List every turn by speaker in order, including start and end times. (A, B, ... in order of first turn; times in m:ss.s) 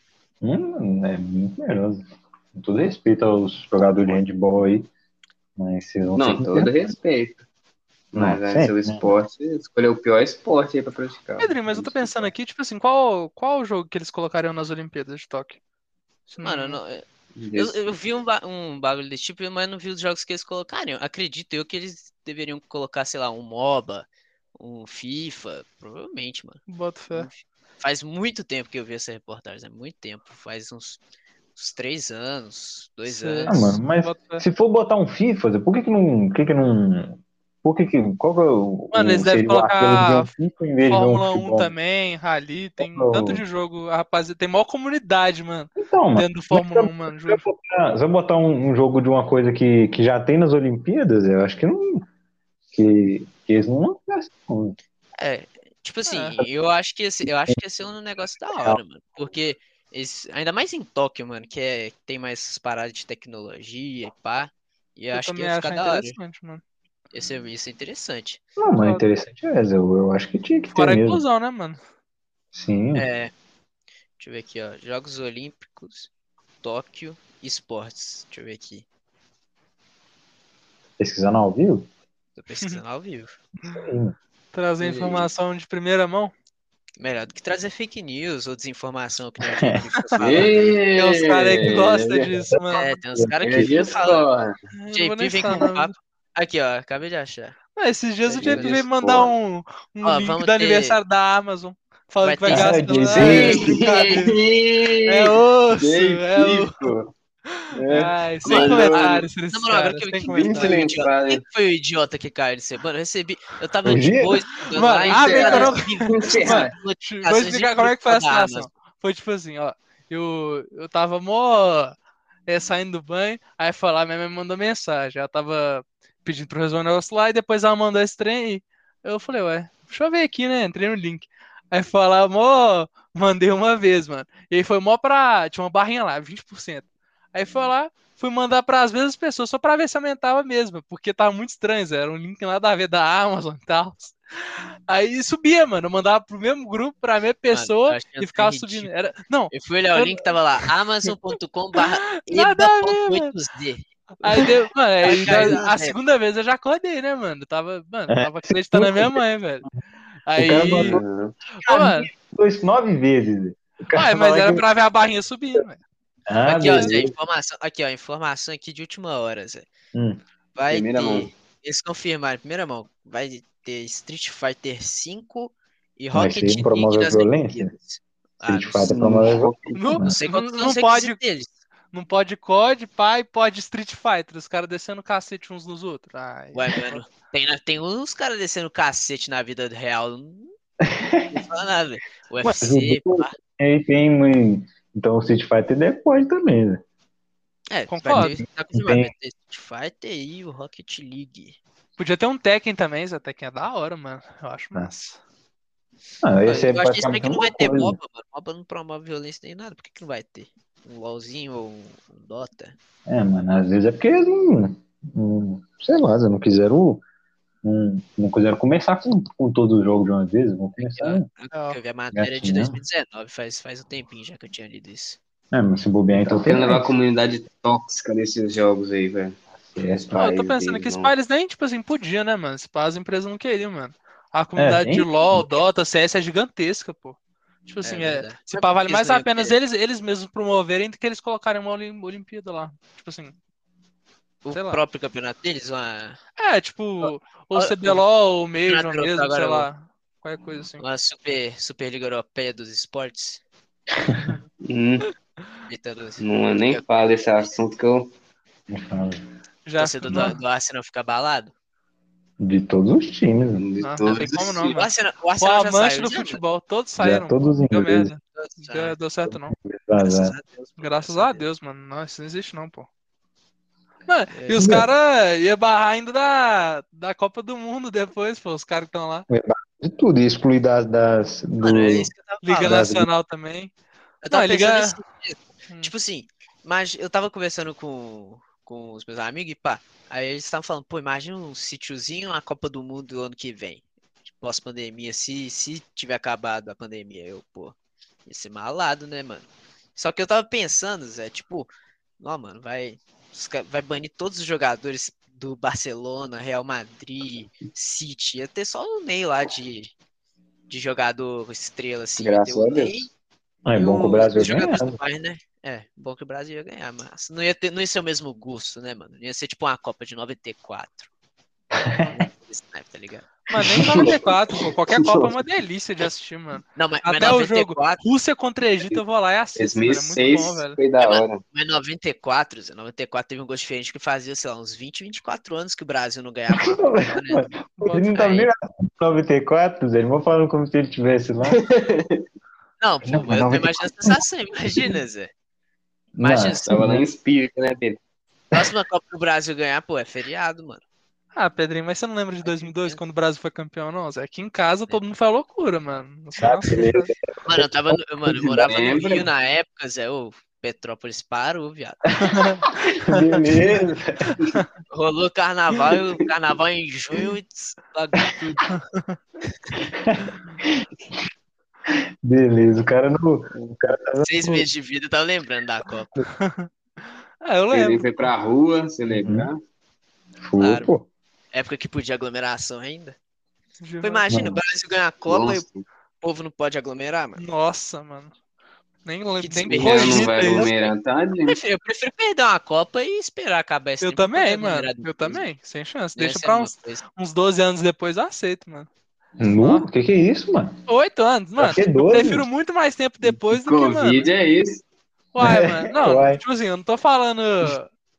0:00.4-0:04.9 A
0:05.6-0:06.7 A
0:06.1-0:07.4 B
0:08.1-0:12.3 B
0:08.2-0:09.1 A
0:11.4-0:15.6 C
0:16.3-0:16.8 C
0:16.4-0:31.0 D
0:17.3-0:17.8 B
0:26.7-0:27.3 C
0:31.6-0:33.6 D
0:33.0-0:34.4 C
0:33.5-0:41.7 A
0:38.9-0:40.3 C
0:40.8-0:47.4 C
0:42.8-0:43.4 A
0:45.8-0:52.0 A
0:52.7-0:54.8 A
0:55.2-1:06.2 D
0:56.1-0:56.4 C
1:05.1-1:06.6 C
1:07.1-1:08.4 D
1:08.6-1:11.2 A
1:08.8-1:09.0 C
1:10.7-1:11.8 C
1:12.5-1:13.0 A
1:12.9-1:13.3 D
1:14.2-1:16.1 D
1:16.6-1:18.8 D
1:21.0-1:21.9 A
1:22.4-1:23.4 D
1:23.6-1:24.2 A
1:24.5-1:26.3 C
1:24.8-1:25.3 B
1:27.0-1:30.8 D
1:30.2-1:32.3 B
1:31.0-1:32.9 C
1:32.7-1:34.2 D
1:33.1-1:33.7 A
1:33.4-1:34.6 B
1:34.7-1:35.9 C
1:34.9-1:37.6 D
1:37.8-1:44.4 C
1:38.2-1:39.3 B
1:38.4-1:38.8 D
1:40.0-1:41.0 D
1:42.2-1:43.6 D
1:42.5-1:43.7 A
1:43.2-1:47.1 B
1:45.0-1:46.9 C
1:47.5-1:50.8 C
1:47.7-1:49.2 B
1:48.4-1:58.7 D
1:50.3-1:51.4 B
1:53.8-1:54.4 A
1:54.7-2:01.9 C
1:55.0-1:56.7 B
2:02.5-2:30.3 C
2:27.5-2:28.9 D
2:29.5-2:33.9 D
2:31.8-2:33.3 C
2:34.2-2:39.7 C
2:35.0-2:36.0 D
2:35.1-2:35.6 A
2:38.1-2:39.2 A
2:40.2-2:41.0 C
2:40.4-2:41.0 A
2:40.8-2:41.4 B
2:41.5-2:42.1 C
2:41.6-2:44.6 A
2:43.9-2:45.8 C
2:46.3-2:47.1 A
2:46.4-2:49.7 D
2:49.9-2:50.2 A
2:50.5-2:58.9 D
2:50.7-2:51.3 B
2:56.1-2:57.7 A
2:58.4-3:00.2 A
2:58.8-2:59.8 B
2:59.7-3:01.2 C
3:00.0-3:01.5 D
3:01.9-3:07.0 C
3:06.5-3:10.5 D
3:10.8-3:11.4 A
3:11.3-3:13.4 D
3:12.4-3:16.8 A
3:17.7-3:21.6 D
3:17.9-3:18.4 C
3:18.0-3:19.1 A
3:22.0-3:25.2 C
3:26.2-3:28.0 A
3:26.4-3:32.7 D
3:33.1-3:37.0 A
3:37.6-3:41.3 A
3:40.8-3:45.2 D
3:41.5-3:41.8 C
3:42.1-3:42.8 A
3:45.5-3:46.9 A
3:46.1-3:49.4 B
3:49.6-3:50.3 A
3:49.9-3:51.1 B
3:50.1-4:03.3 C
3:54.6-3:55.5 A
3:57.8-3:59.5 D
4:04.4-4:06.2 D
4:04.5-4:04.8 C
4:06.4-4:10.8 C
4:07.5-4:08.0 D
4:08.6-4:09.7 D
4:10.8-4:13.4 D
4:14.0-4:14.3 A
4:14.6-4:15.1 B
4:15.7-4:17.5 D
4:16.2-4:18.1 B
4:18.7-4:19.2 A
4:19.6-4:20.4 C
4:19.8-4:21.5 D
4:22.4-4:23.6 A
4:23.5-4:24.7 B
4:23.8-4:29.5 C
4:24.0-4:26.4 D
4:27.0-4:28.1 A
4:28.3-4:28.9 D
4:29.3-4:30.4 A
4:30.0-4:31.4 D
4:30.8-4:32.9 C
4:34.1-4:39.3 C
4:34.3-4:34.7 D
4:34.6-4:34.9 A
4:39.3-4:43.1 A
4:41.6-4:42.8 D
4:42.4-4:43.7 C
4:44.2-4:53.8 D
4:44.3-4:45.0 C
4:54.4-4:57.7 D
4:58.2-5:09.9 D
5:10.7-5:13.1 D
5:12.2-5:13.1 B
5:13.6-5:15.0 A
5:13.7-5:21.1 D
5:21.7-5:22.2 A
5:22.1-5:23.3 D
5:23.5-5:30.8 C
5:23.7-5:24.2 B
5:25.0-5:25.3 B
5:26.8-5:28.0 D
5:29.6-5:31.4 B
5:31.0-5:37.5 D
5:36.5-5:41.6 A
5:37.8-5:38.1 C
5:38.1-5:38.5 D
5:41.5-5:42.2 B
5:42.8-5:45.3 D
5:43.0-5:44.2 A
5:46.2-5:47.0 A
5:46.2-5:46.7 D
5:46.7-5:48.0 B
5:48.5-5:50.8 D
5:51.3-5:57.1 C
5:52.4-5:53.0 D
5:56.4-5:58.7 A
5:57.4-6:02.1 D
5:58.6-5:59.3 B
6:02.2-6:02.7 C
6:02.9-6:04.4 A
6:04.3-6:04.6 C
6:04.9-6:08.6 D
6:08.7-6:09.2 C
6:09.8-6:10.8 A
6:11.9-6:14.7 A
6:14.2-6:16.1 D
6:16.3-6:16.7 C
6:17.4-6:18.3 C
6:17.7-6:19.6 B
6:19.1-6:19.5 A
6:20.4-6:21.0 A
6:20.6-6:20.9 D
6:21.5-6:23.2 D
6:23.8-6:24.2 C
6:24.0-6:25.6 D
6:24.3-6:24.6 A
6:25.2-6:25.8 B
6:26.2-6:27.4 D
6:27.4-6:28.3 C
6:29.0-6:30.7 C
6:29.4-6:30.3 D
6:29.7-6:31.6 B
6:31.4-6:35.4 D
6:34.0-6:38.9 C
6:36.2-6:37.0 D
6:39.4-6:40.8 A
6:39.6-6:39.8 C
6:40.9-6:44.3 C
6:41.6-6:42.5 A
6:43.5-6:44.8 B
6:45.3-6:47.9 C
6:45.4-6:46.4 A